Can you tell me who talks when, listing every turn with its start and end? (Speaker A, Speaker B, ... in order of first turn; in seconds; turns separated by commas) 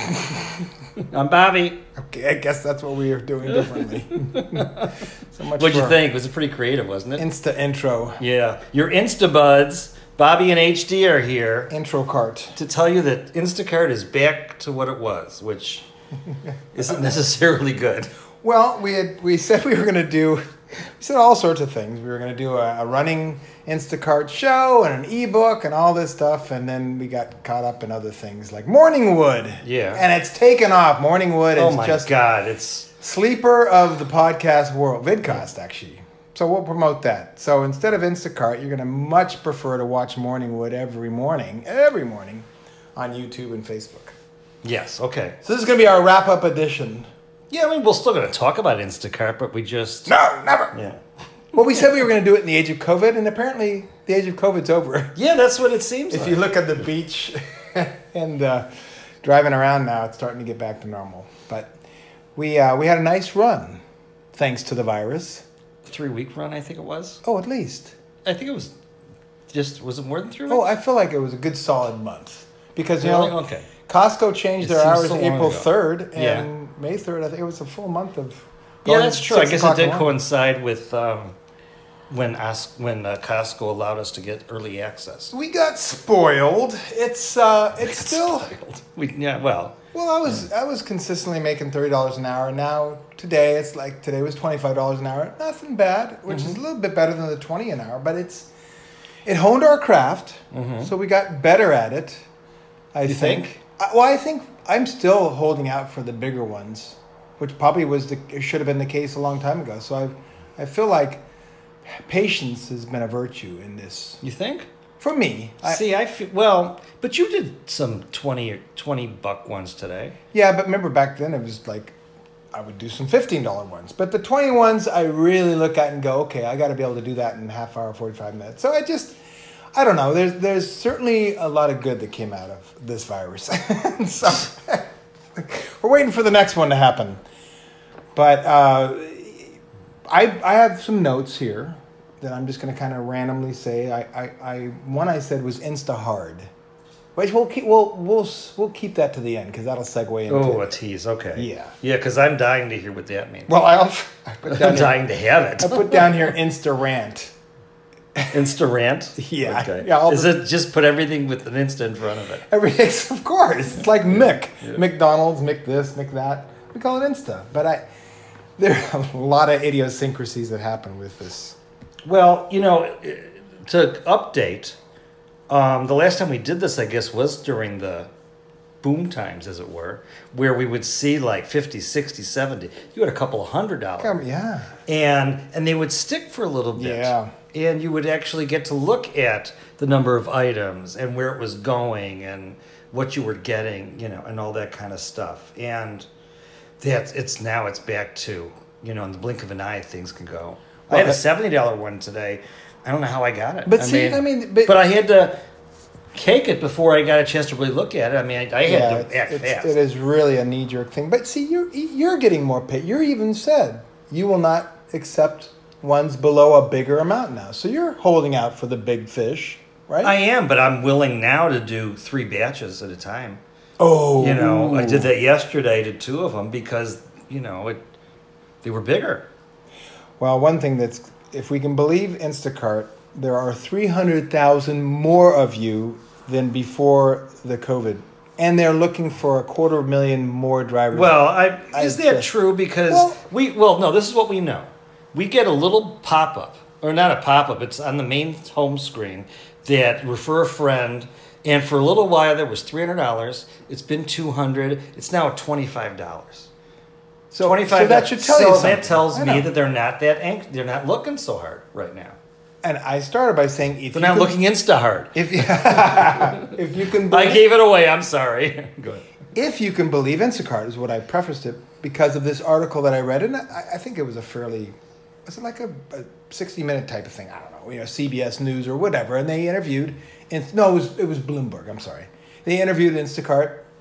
Speaker A: 1.0-1.8, Speaker B: 2.0-6.0, Speaker A: 4.3-4.9, Speaker A: 5.5-7.2, Speaker B: 7.2-8.2, Speaker A: 8.2-11.7, Speaker B: 11.7-12.5, Speaker A: 12.5-15.8, Speaker A: 16.7-18.1, Speaker B: 16.8-17.1, Speaker B: 18.4-20.4, Speaker B: 21.0-32.1, Speaker A: 29.6-30.0, Speaker A: 31.6-32.9, Speaker B: 33.0-44.1, Speaker A: 44.6-45.4, Speaker B: 45.4-47.1, Speaker A: 47.5-50.1, Speaker B: 50.1-50.7, Speaker A: 50.7-51.0, Speaker B: 51.5-55.1, Speaker A: 55.1-56.5, Speaker B: 56.1-58.6, Speaker B: 59.2-61.7, Speaker B: 62.3-63.8, Speaker B: 64.3-65.4, Speaker A: 65.8-67.2, Speaker B: 67.2-67.9, Speaker A: 68.2-68.7, Speaker A: 69.5-70.7, Speaker B: 70.5-80.1, Speaker A: 73.0-73.7, Speaker A: 74.6-76.5, Speaker A: 78.8-81.3, Speaker A: 82.1-85.3, Speaker B: 85.3-88.5, Speaker A: 87.8-89.8, Speaker B: 89.9-98.5, Speaker A: 96.3-96.6, Speaker B: 99.2-102.2, Speaker A: 100.5-100.9, Speaker B: 102.9-111.2, Speaker A: 103.1-103.5, Speaker B: 111.8-114.2, Speaker A: 114.2-114.7, Speaker B: 115.0-115.8, Speaker A: 115.6-120.2, Speaker B: 120.3-122.0, Speaker B: 122.5-129.2, Speaker B: 129.7-137.2, Speaker B: 138.1-139.6, Speaker B: 140.1-146.5, Speaker B: 147.1-150.7, Speaker A: 150.3-153.5, Speaker B: 151.3-151.7, Speaker B: 153.5-155.0, Speaker A: 154.5-156.1, Speaker B: 155.6-157.3, Speaker A: 158.3-162.4, Speaker B: 159.2-160.4, Speaker B: 162.5-167.8, Speaker A: 164.1-164.8, Speaker B: 168.6-171.6, Speaker A: 172.0-174.8, Speaker A: 175.5-178.1, Speaker A: 178.8-184.2, Speaker B: 184.0-184.7, Speaker A: 184.9-196.1, Speaker B: 186.8-187.3, Speaker A: 196.8-205.3, Speaker B: 200.9-201.2, Speaker B: 203.7-204.8, Speaker A: 206.1-209.7, Speaker B: 208.6-220.1, Speaker A: 220.0-223.4, Speaker B: 223.8-225.1, Speaker A: 224.2-227.8, Speaker A: 228.6-229.2, Speaker B: 230.2-242.3, Speaker A: 240.9-256.5, Speaker B: 242.9-243.2, Speaker B: 257.3-259.5, Speaker A: 257.4-262.2, Speaker B: 262.6-264.4, Speaker A: 263.9-266.5, Speaker B: 265.1-267.5, Speaker A: 267.1-269.0, Speaker B: 269.3-274.7, Speaker B: 275.2-283.6